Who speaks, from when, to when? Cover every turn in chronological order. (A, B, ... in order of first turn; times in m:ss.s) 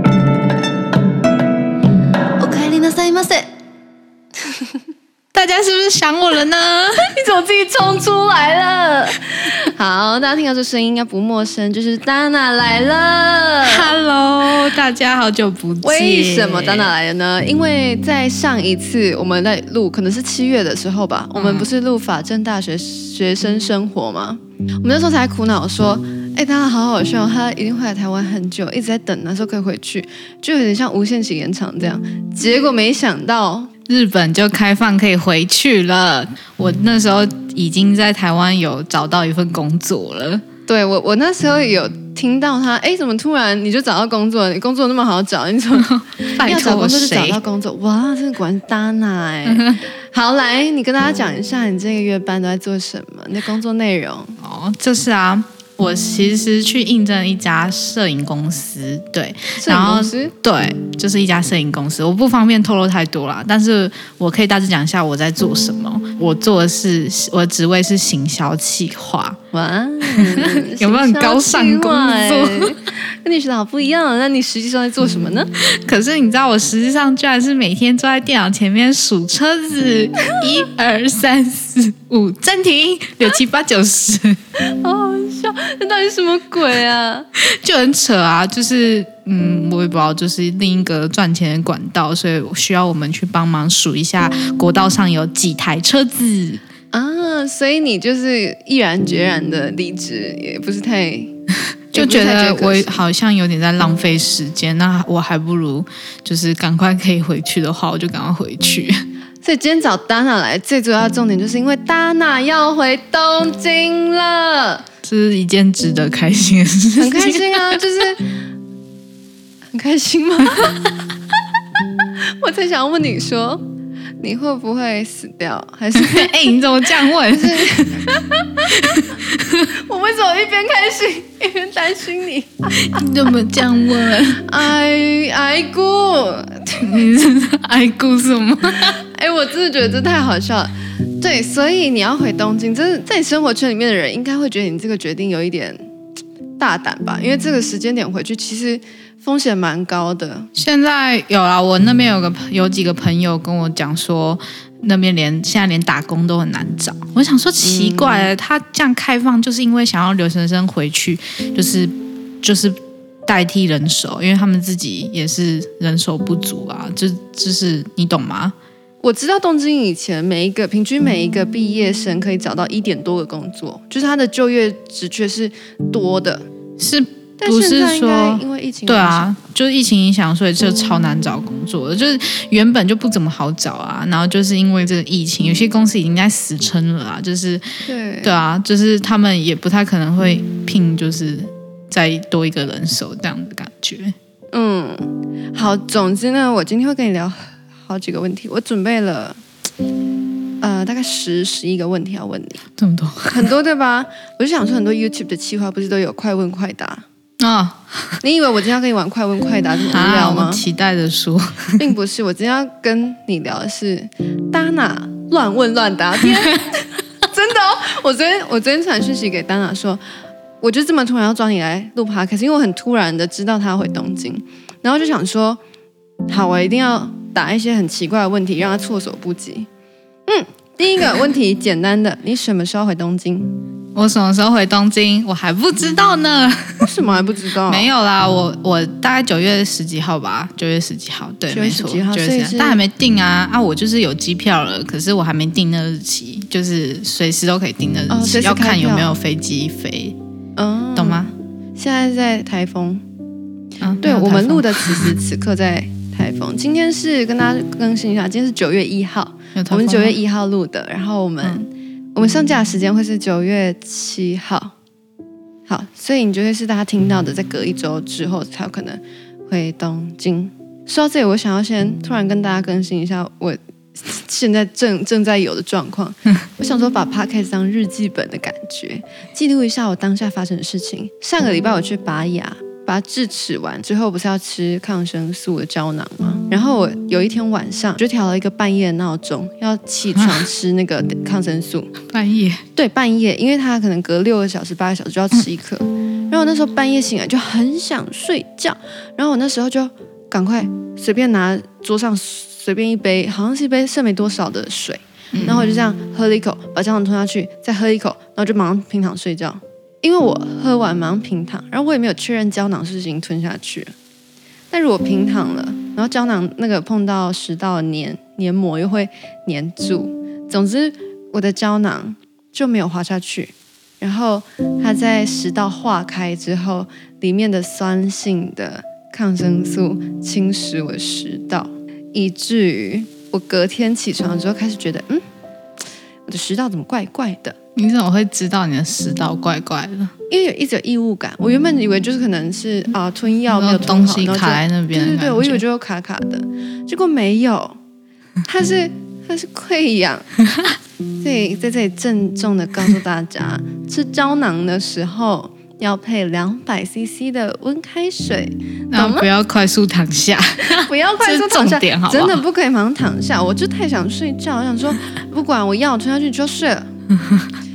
0:02.4-0:03.5 A
0:05.3-0:07.1 B
0:07.0-0:13.9 A
0:13.6-0:16.9 B
0:15.8-0:33.7 A
0:21.4-0:21.7 B
0:33.9-0:40.4 B
0:40.7-0:54.4 A
0:45.8-0:47.4 B
0:49.4-0:49.8 B
0:54.4-1:09.4 B
0:59.6-1:00.3 A
1:09.5-1:15.5 A
1:10.1-1:12.8 B
1:15.6-1:24.4 B
1:24.6-1:27.3 A
1:27.4-1:36.6 B
1:36.9-1:41.3 A
1:41.9-1:49.0 B
1:42.0-1:43.0 A
1:49.4-1:54.9 A
1:55.0-1:57.8 B
1:57.0-1:58.4 A
1:59.7-2:00.9 A
2:02.2-2:03.6 A
2:04.2-2:06.6 A
2:05.9-2:08.1 B
2:07.1-2:09.0 A
2:08.6-2:09.7 B
2:09.7-2:13.0 A
2:12.7-2:14.6 B
2:14.4-2:16.9 A
2:16.8-2:19.0 B
2:18.8-2:25.8 A
2:26.6-2:30.5 A
2:30.6-2:48.6 B
2:37.6-2:38.3 A
2:49.0-2:56.5 A
2:56.8-3:07.7 B
2:57.4-2:59.4 A
3:07.8-3:08.3 A
3:08.2-3:14.2 B
3:14.5-3:19.4 A
3:20.6-3:22.6 A
3:22.8-3:23.5 B
3:23.3-3:27.0 A
3:27.4-3:28.2 B
3:28.2-3:30.6 A
3:29.9-3:31.9 B
3:31.8-3:40.0 A
3:40.6-3:45.6 A
3:46.3-3:49.7 A
3:50.3-3:53.5 A
3:54.0-3:56.9 B
3:56.8-3:57.9 A
3:57.7-4:10.2 B
4:01.5-4:02.8 A
4:08.1-4:09.1 A
4:10.6-4:13.0 A
4:11.0-4:11.3 B
4:13.8-4:15.2 B
4:14.0-4:24.7 A
4:19.6-4:20.2 B
4:25.7-4:52.0 A
4:50.2-4:50.5 B
4:52.1-4:52.6 B
4:52.8-5:13.9 A
5:05.3-5:05.7 B
5:14.7-5:35.2 A
5:36.3-5:37.6 A
5:37.8-5:40.1 B
5:40.3-5:47.8 A
5:43.5-5:45.6 B
5:48.4-5:50.3 A
5:51.2-5:59.3 A
5:58.9-6:02.4 B
6:00.6-6:06.9 A
6:07.1-6:07.5 B